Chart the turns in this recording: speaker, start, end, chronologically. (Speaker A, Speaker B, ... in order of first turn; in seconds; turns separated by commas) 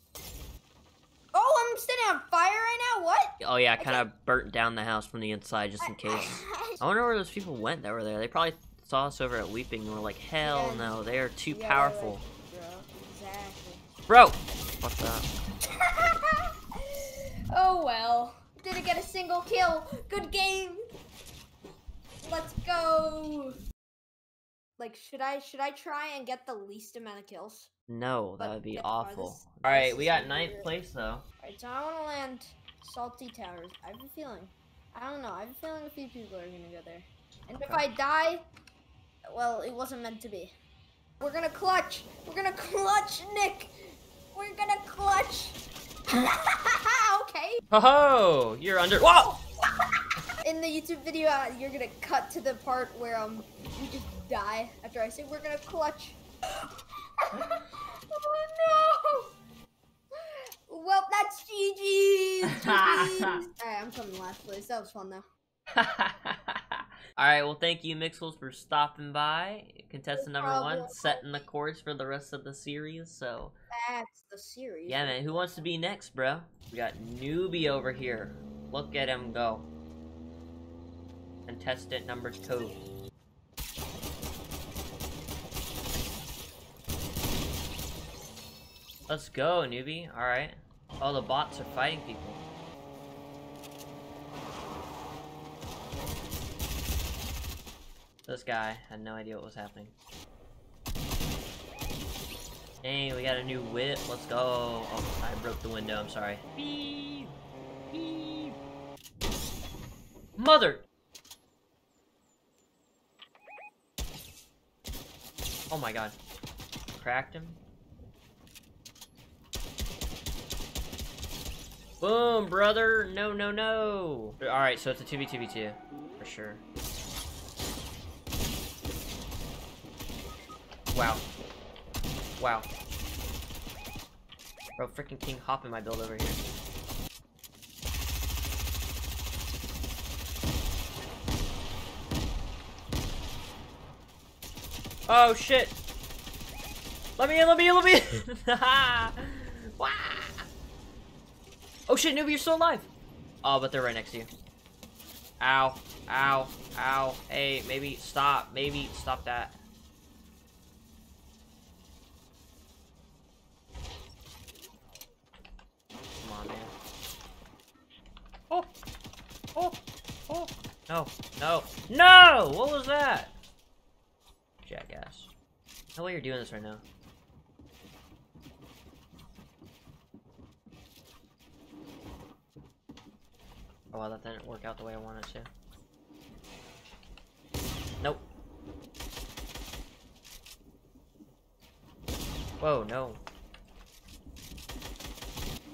Speaker A: 1.3-4.0, Speaker B: 3.4-12.2, Speaker A: 5.8-6.8, Speaker A: 10.4-13.8, Speaker B: 14.1-15.3, Speaker A: 15.7-20.8, Speaker A: 22.2-23.6, Speaker A: 24.8-27.7, Speaker B: 27.9-31.2, Speaker A: 28.4-30.7, Speaker A: 31.4-38.4, Speaker A: 39.3-40.5, Speaker A: 41.2-45.6, Speaker A: 46.1-47.6, Speaker B: 47.7-49.4, Speaker A: 50.4-56.2, Speaker A: 57.2-57.6, Speaker A: 58.1-59.3, Speaker A: 60.1-65.2, Speaker B: 62.5-63.4, Speaker B: 65.8-73.5, Speaker A: 70.1-71.4, Speaker A: 73.7-75.7, Speaker B: 74.9-79.7, Speaker B: 81.5-82.8, Speaker B: 89.1-92.4, Speaker B: 98.3-99.9, Speaker B: 102.8-107.3, Speaker B: 107.9-108.5, Speaker B: 110.4-110.8, Speaker B: 115.7-116.1, Speaker B: 116.9-117.6, Speaker B: 122.0-126.6, Speaker B: 130.9-131.2, Speaker B: 132.4-132.7, Speaker B: 134.8-136.4, Speaker B: 145.1-145.8, Speaker B: 147.2-150.4, Speaker B: 151.9-152.9, Speaker B: 153.4-154.3, Speaker B: 155.4-159.6, Speaker B: 166.2-166.7, Speaker B: 170.3-173.3, Speaker B: 174.6-175.3, Speaker B: 175.9-176.8, Speaker B: 183.9-185.5, Speaker B: 192.6-193.2